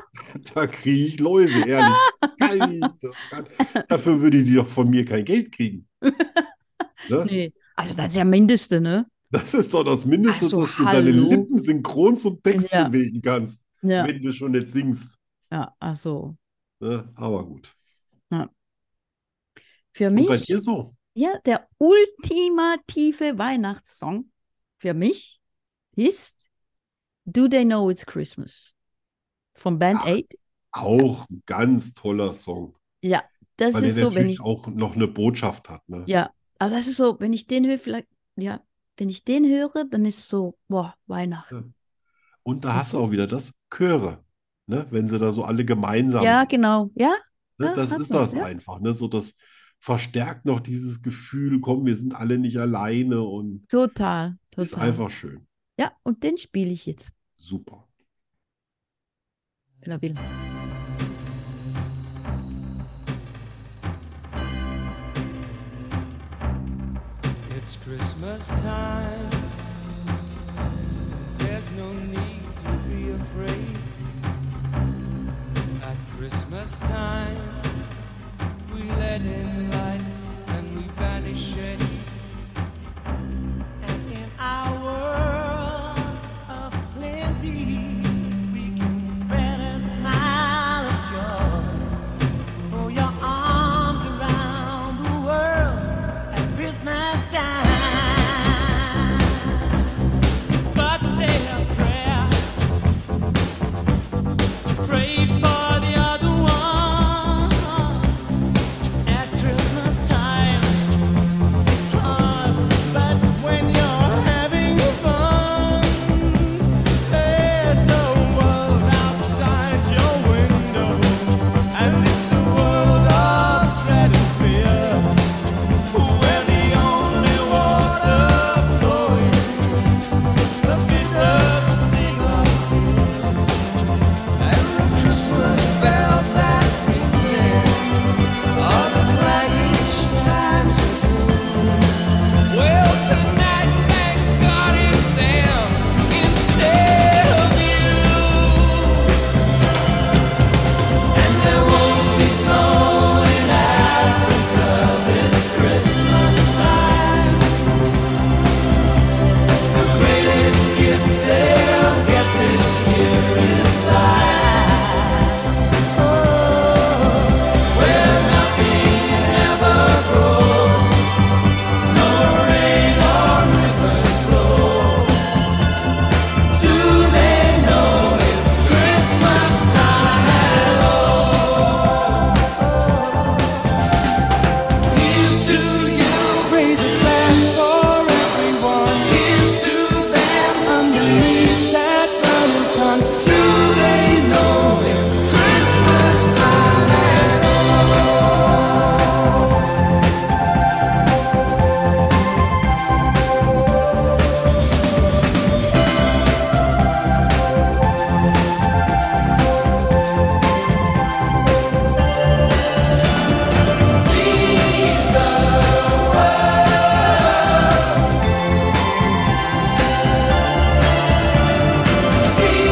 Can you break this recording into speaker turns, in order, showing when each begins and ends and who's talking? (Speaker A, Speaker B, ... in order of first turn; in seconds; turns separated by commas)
Speaker A: 0.2-5.9, Speaker B: 1.8-2.9, Speaker B: 6.1-6.5, Speaker B: 7.2-9.1, Speaker A: 9.3-15.2, Speaker B: 10.3-11.5, Speaker B: 12.5-12.9, Speaker B: 13.8-14.1, Speaker B: 15.5-16.4, Speaker A: 16.8-17.7, Speaker B: 19.9-20.6, Speaker A: 20.1-20.9, Speaker B: 21.1-24.3, Speaker B: 24.8-25.4, Speaker B: 25.9-26.4, Speaker B: 27.3-28.7, Speaker B: 29.6-30.4, Speaker A: 29.9-30.2, Speaker A: 30.7-32.7, Speaker B: 33.0-34.4, Speaker A: 33.7-36.1, Speaker B: 36.1-41.5, Speaker A: 42.4-46.5, Speaker B: 46.2-48.5, Speaker A: 47.6-53.6, Speaker B: 53.7-55.0, Speaker A: 54.6-55.5, Speaker B: 55.8-57.1, Speaker A: 57.4-57.9, Speaker B: 59.8-60.2, Speaker C: 67.4-69.5, Speaker C: 71.3-74.1, Speaker C: 75.8-77.7, Speaker C: 78.7-82.2, Speaker C: 83.8-91.9, Speaker C: 92.7-99.2, Speaker C: 100.6-102.5, Speaker C: 104.8-108.4, Speaker C: 109.0-110.8, Speaker C: 111.6-125.2, Speaker C: 125.9-130.1, Speaker C: 130.6-133.7, Speaker C: 134.3-137.9, Speaker C: 138.5-149.1, Speaker C: 151.1-157.5, Speaker C: 159.7-165.2, Speaker C: 165.9-171.0, Speaker C: 171.8-175.2, Speaker C: 176.5-181.7, Speaker C: 182.8-183.3, Speaker C: 184.9-197.8